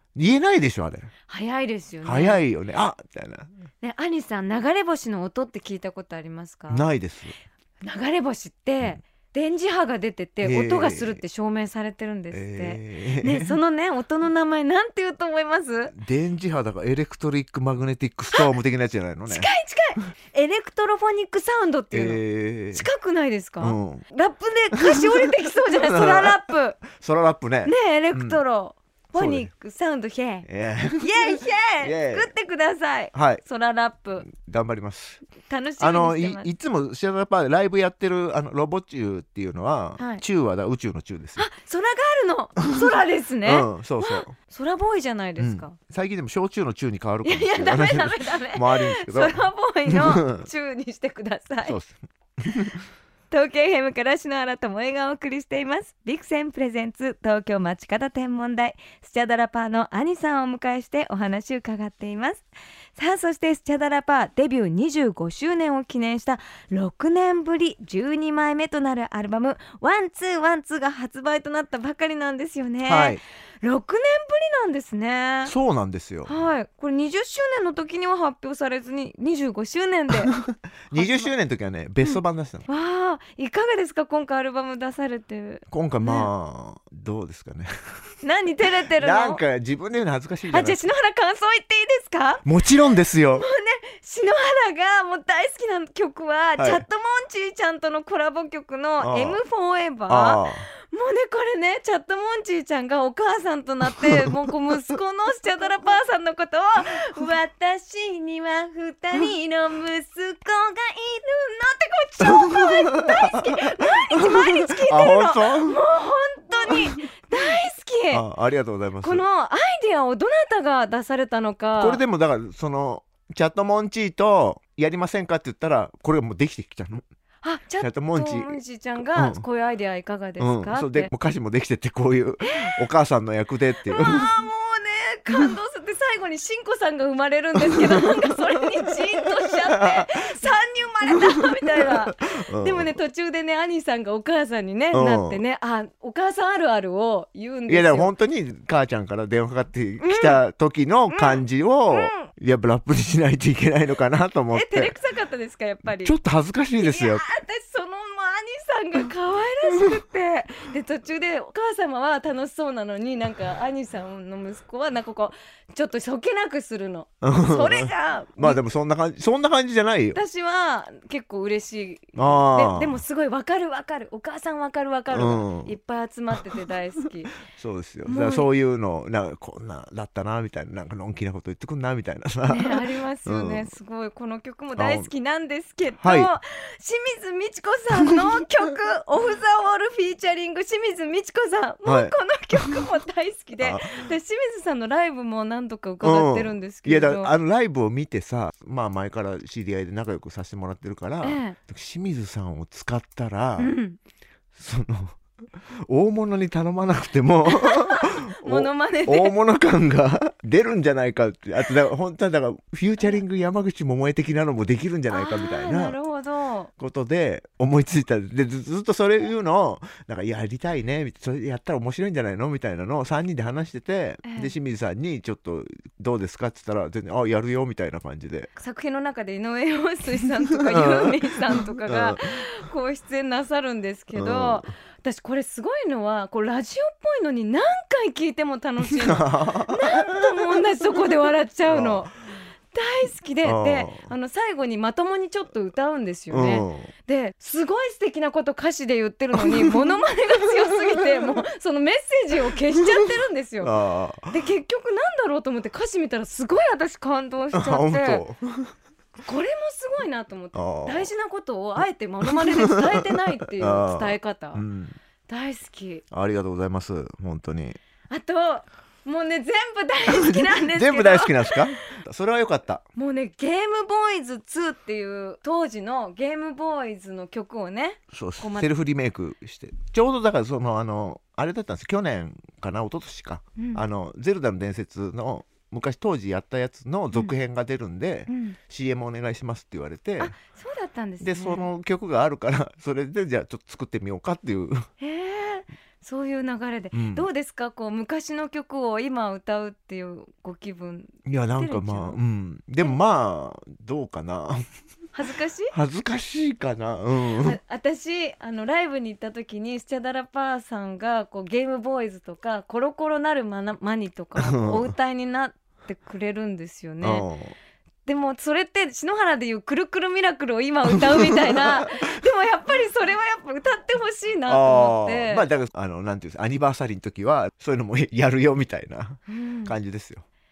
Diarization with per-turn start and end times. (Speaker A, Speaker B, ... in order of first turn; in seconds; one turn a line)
Speaker A: 0.2-1.1
Speaker B: 1.3-2.5
Speaker A: 2.0-3.5
Speaker B: 3.8-6.9
Speaker A: 6.7-7.3
Speaker B: 7.8-15.9
Speaker A: 10.4-11.2
Speaker A: 12.3-13.6
Speaker A: 15.9-19.5
Speaker B: 19.3-26.8
Speaker A: 21.9-22.9
Speaker A: 23.6-24.1
Speaker A: 24.7-28.4
Speaker B: 27.7-30.5
Speaker A: 29.1-29.5
Speaker A: 30.4-32.3
Speaker B: 31.0-34.3
Speaker A: 33.1-33.4
Speaker A: 34.2-35.2
Speaker B: 35.4-36.5
Speaker A: 35.8-41.5
Speaker B: 40.0-40.2
Speaker B: 41.4-45.8
Speaker A: 43.4-44.4
Speaker A: 45.4-50.5
Speaker B: 47.2-51.8
Speaker A: 51.7-52.8
Speaker B: 53.3-62.5
Speaker B: 63.0-75.5
Speaker A: 72.9-73.2
Speaker A: 75.5-76.3
Speaker B: 76.2-80.4
Speaker A: 80.1-82.7
Speaker B: 80.9-81.3
Speaker B: 82.0-86.3
Speaker A: 85.7-87.7
Speaker B: 88.2-89.4
Speaker A: 88.6-90.8
Speaker B: 90.5-92.5
Speaker A: 92.5-93.5
Speaker B: 93.3-118.2
Speaker A: 96.6-96.9
Speaker A: 99.0-99.4
Speaker A: 100.1-100.7
Speaker A: 112.2-115.8
Speaker A: 118.1-119.2
Speaker B: 119.0-122.0
Speaker A: 121.8-127.0
Speaker B: 127.4-131.1
Speaker A: 127.8-129.4
Speaker A: 130.4-134.5
Speaker B: 132.4-132.8
Speaker B: 133.9-148.1
Speaker A: 137.5-138.9
Speaker A: 139.7-140.3
Speaker A: 141.1-143.0
Speaker A: 144.9-145.4
Speaker A: 147.7-154.9
Speaker B: 150.0-150.4
Speaker B: 151.1-152.3
Speaker B: 154.5-156.2
Speaker A: 156.0-157.2
Speaker B: 156.8-168.6
Speaker A: 167.2-170.2
Speaker B: 170.1-177.4
Speaker A: 172.2-173.0
Speaker A: 175.1-175.8
Speaker A: 177.4-183.7
Speaker B: 178.1-178.5
Speaker B: 182.5-197.3
Speaker A: 184.8-185.1
Speaker A: 186.0-186.3
Speaker A: 191.8-192.9
Speaker A: 193.6-194.1
Speaker A: 196.0-203.8
Speaker B: 201.2-201.6
Speaker B: 203.6-204.0
Speaker A: 204.6-205.2
Speaker A: 205.9-216.0
Speaker B: 207.4-209.4
Speaker B: 215.1-216.7
Speaker A: 216.8-228.5
Speaker B: 224.2-224.5
Speaker B: 228.6-242.2
Speaker A: 230.4-232.5
Speaker A: 234.1-234.7
Speaker A: 238.8-240.9
Speaker A: 241.7-242.1
Speaker B: 242.7-253.8
Speaker A: 243.4-244.1
Speaker A: 246.3-246.9
Speaker A: 249.3-250.1
Speaker A: 250.6-251.4
Speaker A: 252.7-253.1
Speaker A: 253.6-254.4
Speaker B: 254.3-258.2
Speaker A: 257.5-258.7
Speaker B: 259.2-264.7
Speaker A: 260.5-261.1
Speaker A: 262.2-265.0
Speaker B: 265.3-266.0
Speaker A: 266.1-267.8
Speaker B: 268.1-271.9
Speaker A: 270.1-272.9
Speaker B: 273.0-278.7
Speaker A: 278.1-290.4
Speaker B: 283.6-283.8
Speaker B: 288.3-288.6
Speaker B: 290.2-291.7
Speaker A: 291.2-294.9
Speaker B: 295.0-302.2
Speaker A: 296.9-297.3
Speaker A: 301.3-304.7
Speaker B: 305.1-305.8
Speaker A: 305.7-307.6
Speaker B: 307.3-317.3
Speaker A: 314.4-314.9
Speaker A: 317.0-317.6
Speaker B: 318.1-325.5
Speaker A: 321.0-321.8
Speaker A: 324.5-330.2
Speaker B: 329.3-329.8